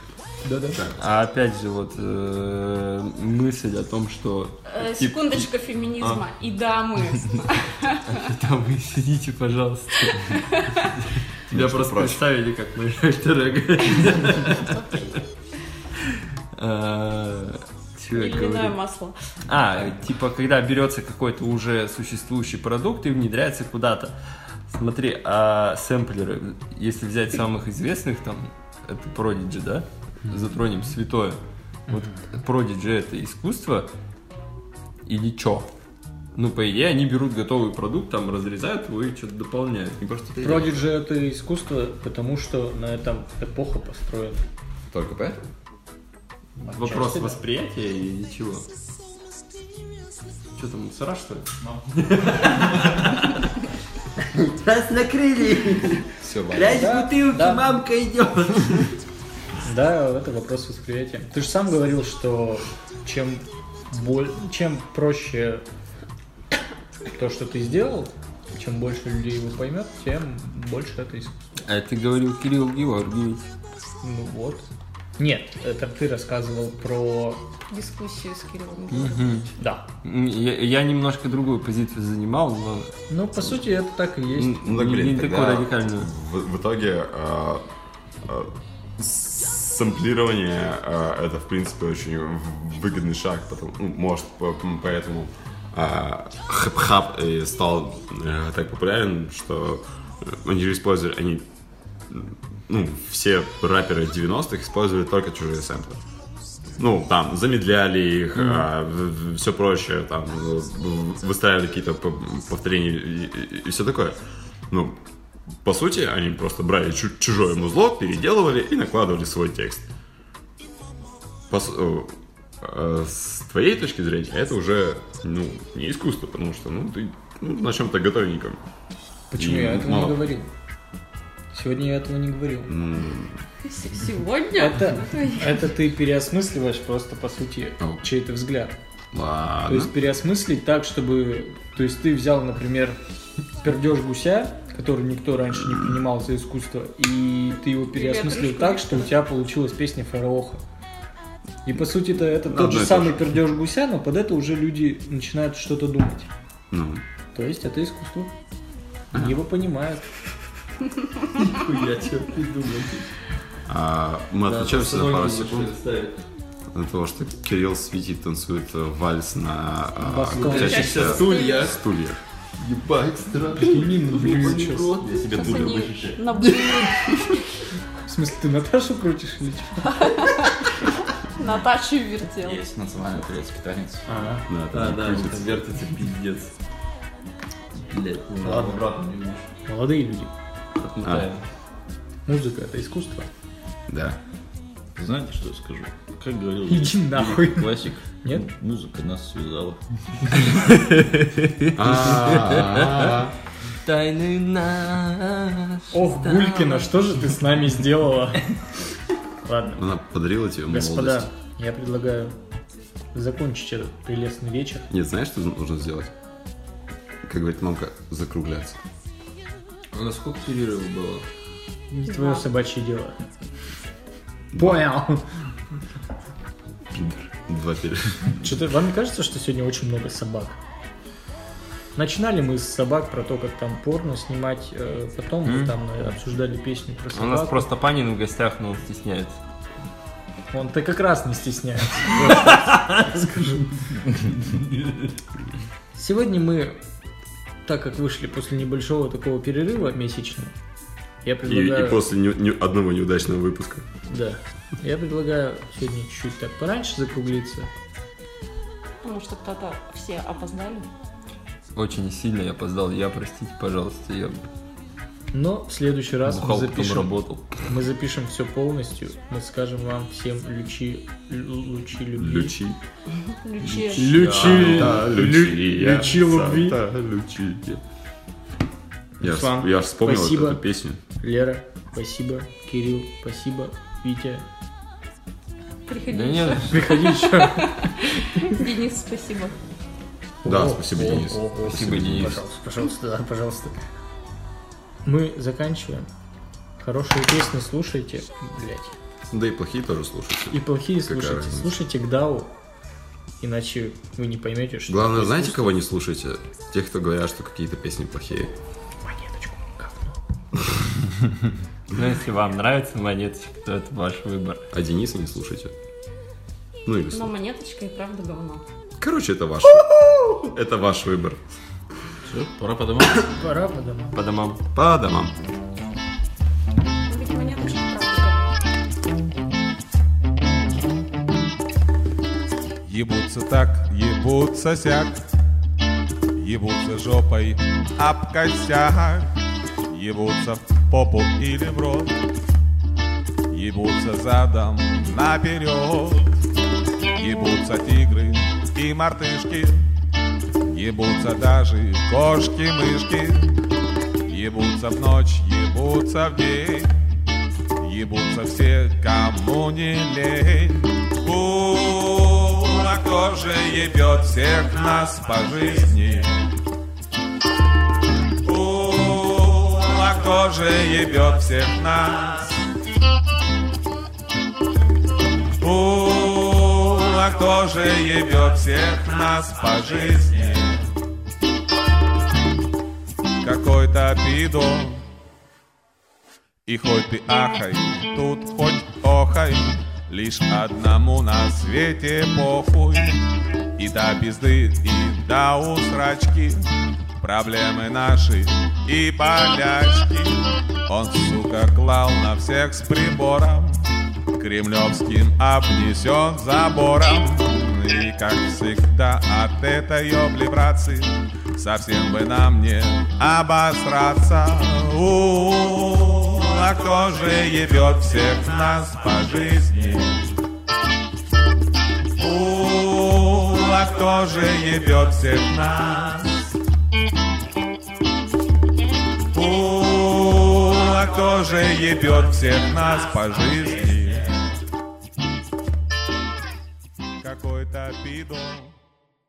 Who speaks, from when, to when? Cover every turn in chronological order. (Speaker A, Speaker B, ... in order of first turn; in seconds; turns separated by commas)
Speaker A: 0.4-0.8, Speaker B: 0.9-6.2, Speaker C: 4.7-8.3, Speaker B: 8.1-14.8, Speaker C: 10.1-10.9, Speaker D: 11.5-12.2, Speaker C: 14.5-15.2, Speaker B: 16.0-18.8, Speaker C: 18.1-19.6, Speaker B: 19.5-24.1, Speaker B: 24.7-31.4, Speaker A: 31.9-32.2, Speaker B: 31.9-33.9, Speaker B: 35.0-35.7, Speaker B: 36.3-40.0, Speaker D: 40.0-40.7, Speaker A: 40.4-44.4, Speaker D: 44.9-45.4, Speaker A: 46.6-47.4, Speaker B: 46.7-48.6, Speaker B: 50.5-53.5, Speaker B: 54.2-58.9, Speaker D: 56.2-56.8, Speaker A: 56.5-57.6, Speaker A: 59.6-65.6, Speaker A: 67.1-71.3, Speaker B: 71.6-73.5, Speaker A: 74.0-74.7, Speaker A: 75.2-77.5, Speaker C: 77.7-79.4, Speaker B: 78.9-79.5, Speaker A: 79.6-79.8, Speaker B: 80.0-82.9, Speaker A: 83.1-84.7, Speaker B: 84.3-86.1, Speaker D: 84.6-87.6, Speaker D: 88.2-101.5, Speaker D: 102.1-106.0, Speaker D: 106.8-114.2, Speaker D: 114.7-115.0, Speaker D: 115.6-119.9, Speaker D: 121.5-128.6, Speaker A: 129.3-130.5, Speaker D: 129.4-130.2, Speaker A: 131.5-132.7, Speaker D: 132.7-133.4, Speaker C: 133.6-135.6, Speaker A: 134.6-138.7, Speaker D: 139.1-139.9, Speaker A: 139.7-143.0, Speaker A: 143.6-150.6, Speaker C: 147.9-149.1, Speaker A: 151.6-156.3, Speaker D: 152.4-153.2, Speaker D: 156.7-157.0, Speaker A: 157.3-158.3, Speaker D: 159.1-159.4, Speaker A: 159.1-160.0, Speaker B: 161.3-163.1, Speaker D: 163.7-165.7, Speaker B: 164.5-166.1, Speaker D: 166.7-172.2, Speaker A: 170.0-171.2, Speaker B: 170.3-171.8, Speaker C: 170.6-171.6, Speaker B: 172.6-175.7, Speaker A: 173.6-174.9, Speaker E: 174.3-176.2, Speaker C: 175.3-177.4, Speaker B: 176.3-177.4, Speaker A: 178.0-180.4, Speaker C: 179.9-180.8, Speaker C: 181.3-182.6, Speaker E: 182.4-184.4, Speaker A: 184.1-184.5, Speaker D: 184.5-185.5, Speaker B: 184.7-186.5, Speaker B: 187.9-188.7, Speaker E: 187.9-189.5, Speaker A: 188.4-188.7, Speaker A: 189.7-190.3, Speaker B: 190.8-191.4, Speaker D: 191.0-191.3, Speaker A: 192.3-193.3, Speaker D: 193.9-194.2, Speaker E: 194.9-200.7, Speaker A: 196.7-198.5, Speaker B: 200.8-202.7, Speaker D: 201.7-203.3, Speaker B: 203.7-207.1, Speaker A: 205.9-208.5, Speaker A: 209.4-209.8, Speaker D: 209.8-211.2, Speaker A: 210.7-212.3, Speaker A: 213.1-214.9, Speaker D: 214.9-216.1, Speaker D: 217.2-218.8, Speaker B: 219.9-221.2, Speaker A: 221.9-223.2, Speaker C: 222.1-222.4, Speaker D: 224.5-224.8, Speaker A: 224.6-225.2, Speaker D: 226.9-228.4, Speaker A: 228.4-230.6, Speaker A: 231.9-237.7, Speaker B: 235.4-235.7, Speaker B: 237.1-239.4, Speaker A: 240.5-243.9, Speaker B: 242.2-242.9, Speaker A: 245.9-246.8, Speaker A: 247.6-250.5, Speaker A: 251.2-252.0, Speaker D: 251.4-253.8, Speaker A: 254.1-257.7, Speaker C: 259.0-260.9, Speaker B: 261.7-264.5, Speaker A: 265.3-272.5, Speaker B: 266.2-267.7, Speaker D: 272.2-272.8, Speaker C: 273.2-274.2, Speaker D: 273.6-277.8, Speaker A: 273.9-276.8, Speaker B: 274.1-275.1, Speaker D: 279.2-281.0, Speaker A: 279.2-280.6, Speaker A: 281.2-284.4, Speaker C: 285.9-289.6, Speaker B: 286.1-286.9, Speaker A: 286.7-288.6, Speaker A: 290.4-293.7, Speaker D: 290.4-292.4, Speaker B: 291.6-292.4, Speaker A: 295.0-296.1, Speaker A: 296.8-298.9, Speaker D: 299.3-301.8, Speaker A: 300.5-302.5, Speaker A: 303.4-305.8, Speaker D: 304.9-308.5, Speaker A: 309.0-310.2, Speaker B: 311.9-314.7, Speaker D: 314.7-315.7, Speaker D: 316.9-317.3, Speaker C: 317.1-318.6, Speaker D: 319.0-319.9, Speaker D: 320.4-321.4, Speaker E: 322.2-323.3, Speaker A: 323.3-324.2, Speaker B: 324.1-324.6, Speaker D: 324.7-325.3, Speaker C: 327.1-328.6, Speaker F: 332.8-335.3, Speaker F: 336.4-342.2, Speaker F: 343.5-346.3, Speaker F: 347.1-349.8, Speaker F: 350.6-353.6, Speaker F: 354.2-356.9, Speaker F: 357.8-366.3, Speaker F: 368.4-372.6, Speaker F: 375.6-380.9, Speaker F: 383.4-385.0, Speaker F: 386.7-393.2, Speaker F: 393.8-403.8, Speaker F: 404.3-420.3, Speaker F: 422.2-426.5, Speaker F: 429.3-434.3, Speaker F: 437.2-438.8